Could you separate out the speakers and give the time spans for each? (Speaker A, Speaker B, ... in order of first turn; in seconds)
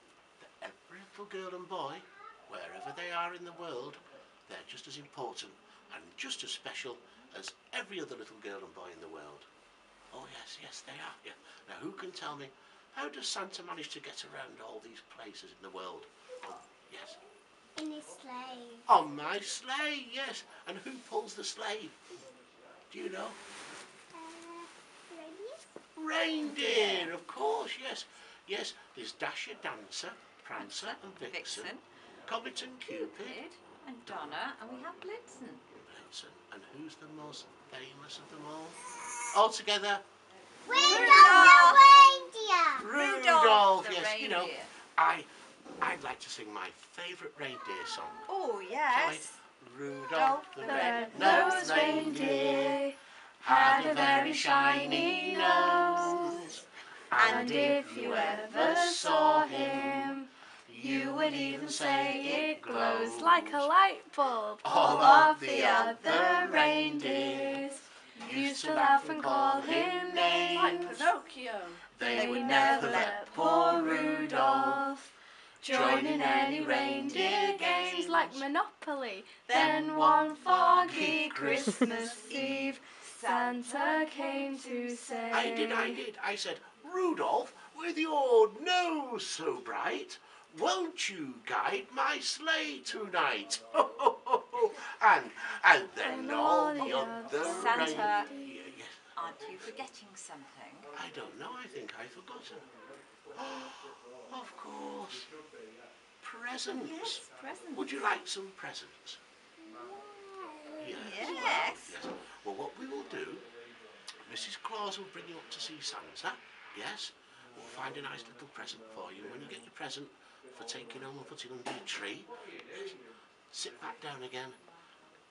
Speaker A: 0.4-9.5, 10.1-17.2, 18.9-22.1, 22.9-23.4, 25.9-33.4, 34.1-34.4, 35.7-40.0, 42.8-48.3, 48.9-52.8, 53.4-63.7, 64.6-71.1, 71.9-74.9, 75.6-78.5, 79.5-82.3, 85.3-99.1, 100.9-102.7, 103.3-105.3, 106.2-109.2, 110.8-113.5, 114.3-124.6
Speaker B: 17.8-18.9, 24.1-25.7, 40.6-42.9, 109.6-111.4
Speaker C: 26.4-27.1, 30.6-31.8, 32.9-35.6, 40.7-42.1, 42.8-44.7, 48.3-49.4, 50.1-52.5, 57.1-58.7, 72.1-73.5, 82.3-83.6, 96.8-98.3, 99.1-100.9, 106.8-108.0, 111.0-112.0
Speaker D: 50.6-56.4, 57.2-75.1, 75.6-86.0, 96.0-98.6